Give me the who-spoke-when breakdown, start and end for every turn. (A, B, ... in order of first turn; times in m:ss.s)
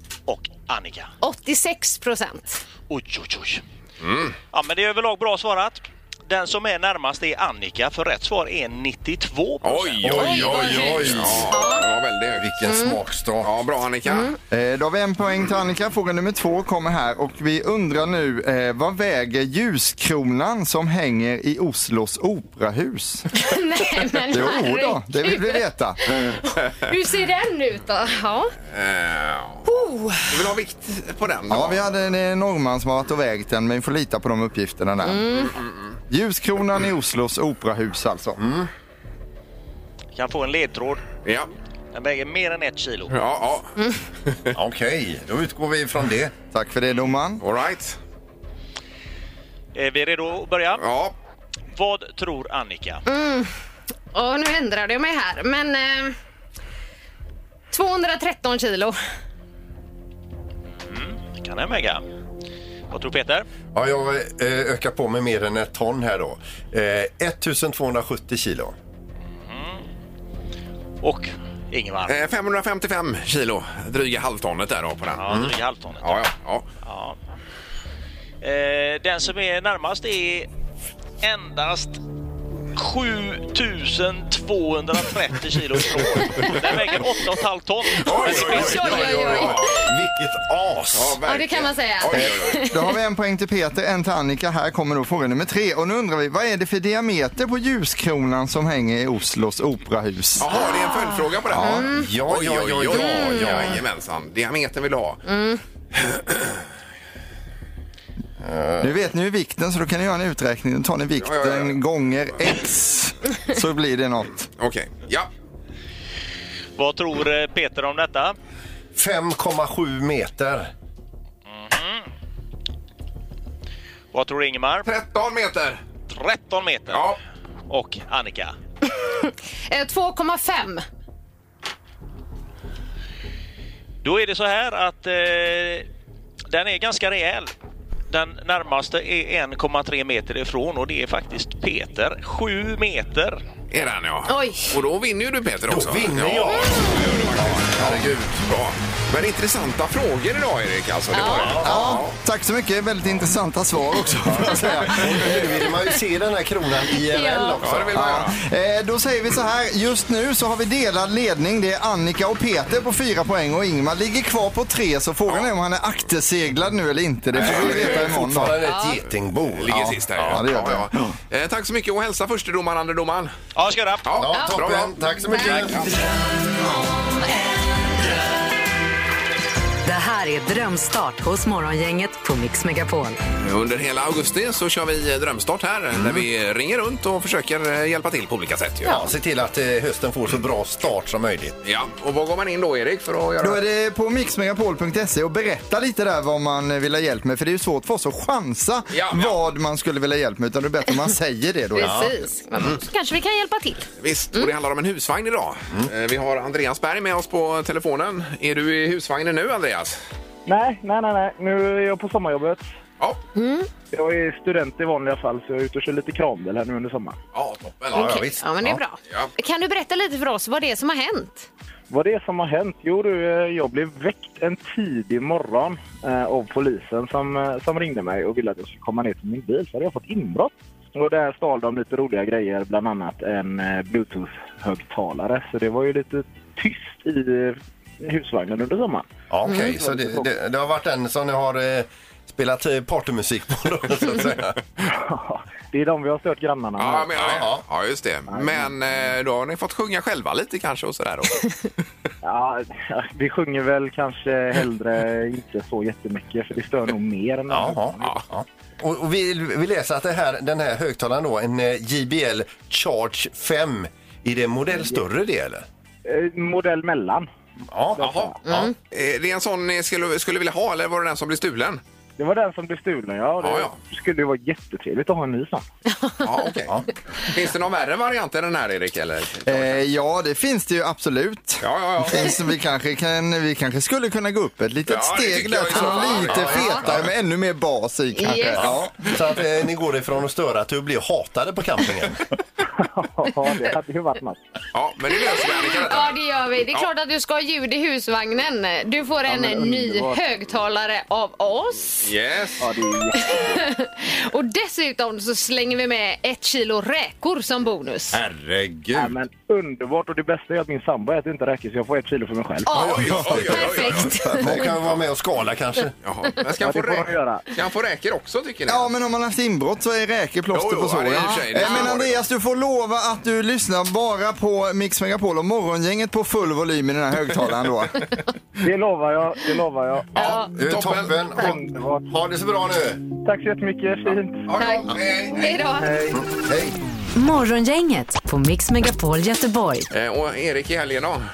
0:00.3-0:01.1 A
0:01.2-0:02.6 B
0:02.9-0:03.6 A
0:04.0-0:04.4 C
0:04.5-0:10.3 A
0:09.6-0:12.5 C
0:10.0-0:11.6 D
0:10.2-0:11.9 B
0:12.4-0:13.5 D
0:12.7-0:13.0 B
0:13.4-0:14.3 C
0:14.1-0:14.4 B
0:14.5-0:23.4 E
0:23.4-0:28.5 B
0:24.2-0:26.4 E
0:28.7-0:29.7 C
0:29.7-0:30.3 B
0:30.2-0:31.8 C
0:31.5-0:35.4 E
0:35.0-0:35.6 B
0:36.1-0:38.4 E
0:38.4-0:38.7 D
0:40.1-0:41.0 A
0:41.9-0:43.2 A
0:43.1-0:43.7 C
0:44.3-0:44.5 C
0:44.5-0:46.3 D
0:46.5-0:47.4 E
0:47.4-0:48.0 C
0:49.8-0:50.8 A
0:50.8-0:51.1 C
0:51.8-0:53.0 A
0:53.1-0:53.5 B
0:54.1-0:56.2 B
0:57.7-0:59.0 B
1:00.9-1:02.0 A
1:02.9-1:03.5 A
1:03.7-1:08.8 D
1:09.4-1:09.8 A
1:11.0-1:12.2 A
1:12.1-1:15.4 C
1:15.2-1:16.3 A
1:16.0-1:16.7 C
1:16.8-1:17.2 A
1:18.4-1:20.5 A
1:21.2-1:22.0 A
1:22.8-1:29.2 A
1:28.0-1:29.7 C
1:28.1-1:29.9 B
1:28.2-1:31.2 D
1:30.9-1:32.6 C
1:31.3-1:32.9 B
1:32.6-1:40.5 E
1:40.4-1:45.2 C
1:40.6-1:42.1 B
1:41.6-1:43.8 D
1:42.9-1:43.7 B
1:45.3-1:45.6 B
1:46.0-1:46.6 C
1:48.4-1:48.9 D
1:48.8-1:54.5 E
1:51.2-1:51.8 C
1:54.6-1:55.3 C
1:56.8-1:58.4 A
1:59.0-2:00.7 D
2:01.5-2:02.1 A
2:04.1-2:04.9 A
2:04.9-2:05.8 C
2:06.1-2:07.1 A
2:06.9-2:07.2 C
2:07.7-2:08.6 A
2:09.2-2:10.8 B
2:14.0-2:15.9 A
2:16.5-2:17.5 A
2:18.1-2:23.4 A
2:23.7-2:32.2 C
2:24.3-2:24.7 B
2:25.7-2:28.5 D
2:31.1-2:31.6 B
2:31.2-2:32.0 D
2:31.6-2:35.5 E
2:34.2-2:38.1 D
2:37.1-2:37.6 B
2:37.6-2:38.4 C
2:37.9-2:48.6 E
2:47.4-2:48.1 C
2:47.4-2:50.4 D
2:48.6-2:49.0 B
2:49.6-2:53.3 C
2:49.7-2:51.2 E
2:53.6-2:54.1 A
2:54.0-2:56.0 C
2:54.2-2:56.1 D
2:55.3-2:55.7 B
2:59.8-3:03.2 F
3:03.4-3:08.9 C
3:08.8-3:11.6 D
3:11.6-3:13.6 C
3:13.4-3:22.2 E
3:18.9-3:19.4 C
3:21.8-3:24.5 B
3:21.8-3:22.1 D
3:24.0-3:30.0 C
3:30.5-3:32.6 G
3:33.4-3:33.7 B
3:33.9-3:37.2 G
3:37.3-3:38.3 C
3:37.9-3:38.8 D
3:37.9-3:41.5 B
3:41.9-3:59.1 G
3:59.3-4:04.6 D
3:59.5-3:59.7 B
3:59.7-4:00.3 G
4:04.9-4:07.1 G
4:06.8-4:11.6 C
4:07.1-4:07.6 D
4:08.3-4:08.7 G
4:12.2-4:18.2 G
4:17.5-4:25.7 D
4:26.0-4:27.3 G
4:27.7-4:28.0 D
4:28.0-4:28.4 G
4:28.0-4:31.8 C
4:28.4-4:28.7 B
4:32.2-4:35.6 G
4:33.4-4:33.8 C
4:35.9-4:36.3 B
4:36.2-4:39.8 C
4:39.5-4:49.1 E
4:41.6-4:42.4 C
4:44.9-4:46.9 C
4:45.7-4:46.6 B
4:46.3-4:47.1 D
4:48.2-4:48.8 B
4:49.0-4:52.3 D
4:52.8-4:54.4 G
4:54.7-4:56.2 C
4:55.1-5:02.1 B
4:59.3-5:00.2 G
5:02.0-5:02.7 C
5:02.6-5:03.4 G
5:03.2-5:08.2 B
5:08.1-5:09.1 D
5:08.9-5:12.7 G
5:12.6-5:14.7 B
5:12.7-5:14.2 C
5:12.8-5:16.0 D
5:16.0-5:18.9 C
5:16.6-5:17.5 G
5:18.7-5:28.1 E
5:20.5-5:22.2 C
5:21.2-5:21.9 B
5:28.6-5:30.1 G
5:30.2-5:33.0 D
5:30.2-5:30.5 B
5:30.2-5:31.5 C
5:31.3-5:32.1 G
5:33.2-5:34.5 G
5:34.5-5:35.6 C
5:34.6-5:36.0 B
5:35.7-5:36.2 G
5:36.1-5:36.8 D
5:37.1-5:39.9 F
5:39.9-5:41.2 C